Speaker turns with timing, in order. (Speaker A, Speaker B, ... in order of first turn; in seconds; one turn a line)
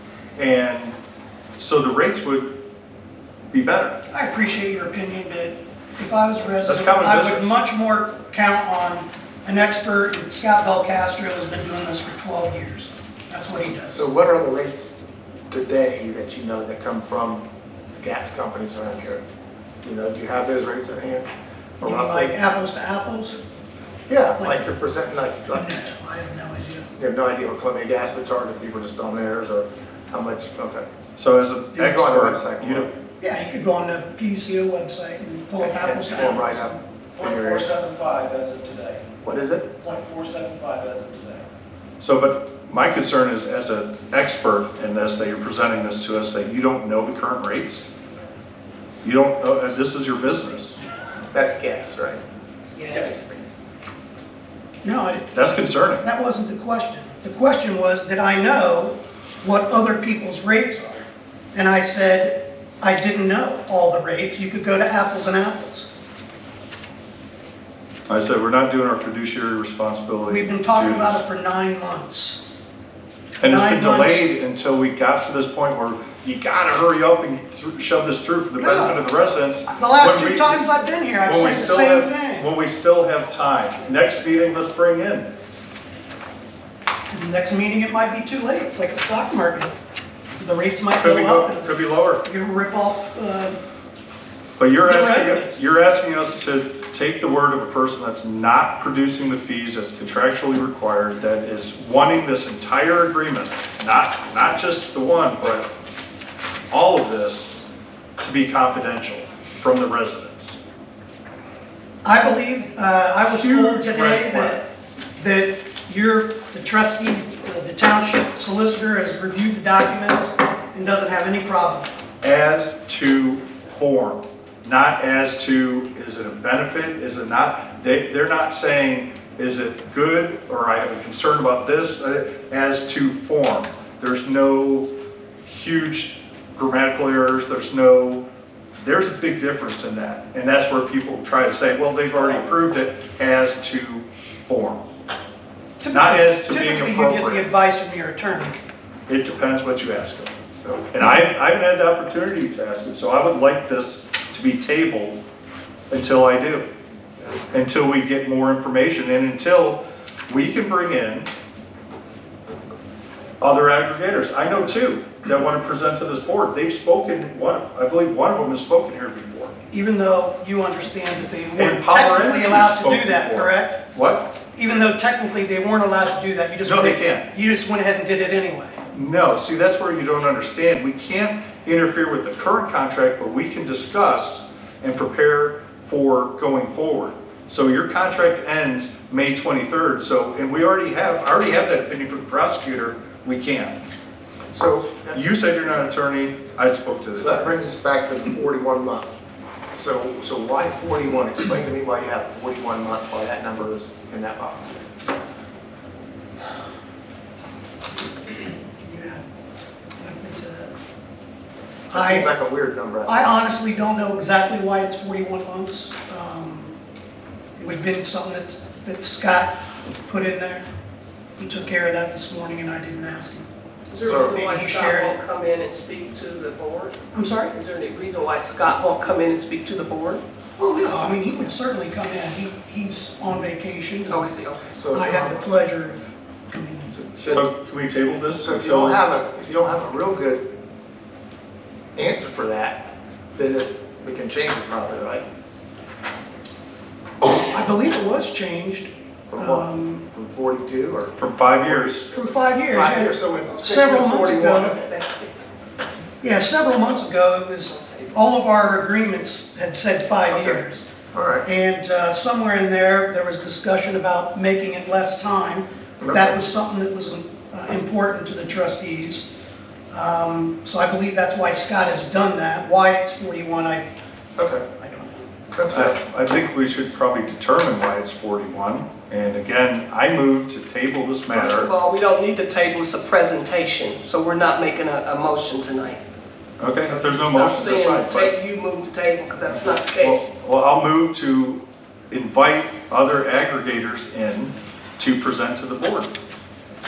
Speaker A: 0.3-0.9
Speaker A: 1.6-2.5
Speaker A: 3.5-4.0
Speaker B: 4.1-14.0
Speaker A: 6.6-7.5
Speaker C: 13.9-14.9
Speaker C: 15.5-17.4
Speaker C: 18.0-19.2
Speaker C: 19.8-21.3
Speaker B: 21.8-23.4
Speaker C: 21.8-22.4
Speaker C: 24.1-25.7
Speaker B: 24.4-24.6
Speaker B: 25.5-26.9
Speaker C: 27.0-30.9
Speaker A: 31.2-32.9
Speaker C: 31.7-32.9
Speaker B: 33.2-36.7
Speaker C: 35.6-37.7
Speaker D: 37.2-39.1
Speaker C: 39.2-39.7
Speaker D: 39.8-41.5
Speaker A: 42.0-47.9
Speaker A: 49.0-50.7
Speaker C: 51.3-52.2
Speaker C: 52.9-53.2
Speaker B: 54.8-61.0
Speaker A: 55.3-56.0
Speaker B: 61.5-65.9
Speaker A: 68.1-71.2
Speaker B: 70.3-72.4
Speaker A: 73.4-85.3
Speaker B: 73.4-74.2
Speaker B: 78.6-79.0
Speaker B: 79.7-82.5
Speaker B: 87.1-89.7
Speaker B: 90.4-93.6
Speaker A: 91.0-92.2
Speaker A: 94.6-105.7
Speaker B: 94.8-95.5
Speaker A: 106.7-107.6
Speaker A: 108.2-110.6
Speaker B: 112.0-121.9
Speaker A: 113.3-114.6
Speaker A: 122.2-134.9
Speaker A: 135.4-138.2
Speaker A: 138.8-144.8
Speaker B: 145.8-148.5
Speaker A: 145.9-147.5
Speaker A: 149.1-150.3
Speaker A: 150.9-155.2
Speaker A: 155.9-156.7
Speaker A: 157.5-161.3
Speaker A: 163.4-169.5
Speaker B: 169.7-173.8
Speaker A: 171.6-174.3
Speaker B: 174.6-178.8
Speaker A: 176.6-177.3
Speaker A: 178.9-193.8
Speaker C: 194.5-195.7
Speaker A: 195.1-197.6
Speaker C: 197.2-199.1
Speaker C: 199.8-204.8
Speaker B: 208.8-209.2
Speaker B: 210.0-210.7
Speaker B: 211.9-212.3
Speaker C: 211.9-213.3
Speaker B: 213.1-216.8
Speaker B: 217.6-219.6
Speaker B: 220.1-220.7
Speaker B: 221.4-223.5
Speaker E: 223.9-227.0
Speaker C: 224.0-224.3
Speaker B: 224.1-225.2
Speaker B: 227.1-227.5
Speaker E: 227.5-230.2
Speaker B: 230.6-234.3
Speaker E: 230.8-231.1
Speaker E: 234.1-234.7
Speaker C: 234.7-235.8
Speaker B: 234.9-237.0
Speaker C: 236.9-237.4
Speaker A: 237.2-239.0
Speaker C: 238.4-240.5
Speaker C: 241.9-245.2
Speaker B: 247.2-250.1
Speaker C: 249.3-252.1
Speaker A: 251.2-252.1
Speaker B: 252.1-254.8
Speaker C: 252.7-254.8
Speaker E: 253.5-255.3
Speaker B: 256.2-260.8
Speaker E: 256.7-258.3
Speaker C: 260.3-260.6
Speaker C: 261.1-261.4
Speaker B: 261.4-269.3
Speaker C: 266.0-266.4
Speaker B: 269.9-273.9
Speaker C: 274.4-274.6
Speaker B: 274.8-275.2
Speaker C: 275.5-275.9
Speaker A: 275.7-281.7
Speaker E: 281.3-286.0
Speaker A: 286.6-288.3
Speaker E: 286.8-290.3
Speaker A: 290.0-296.1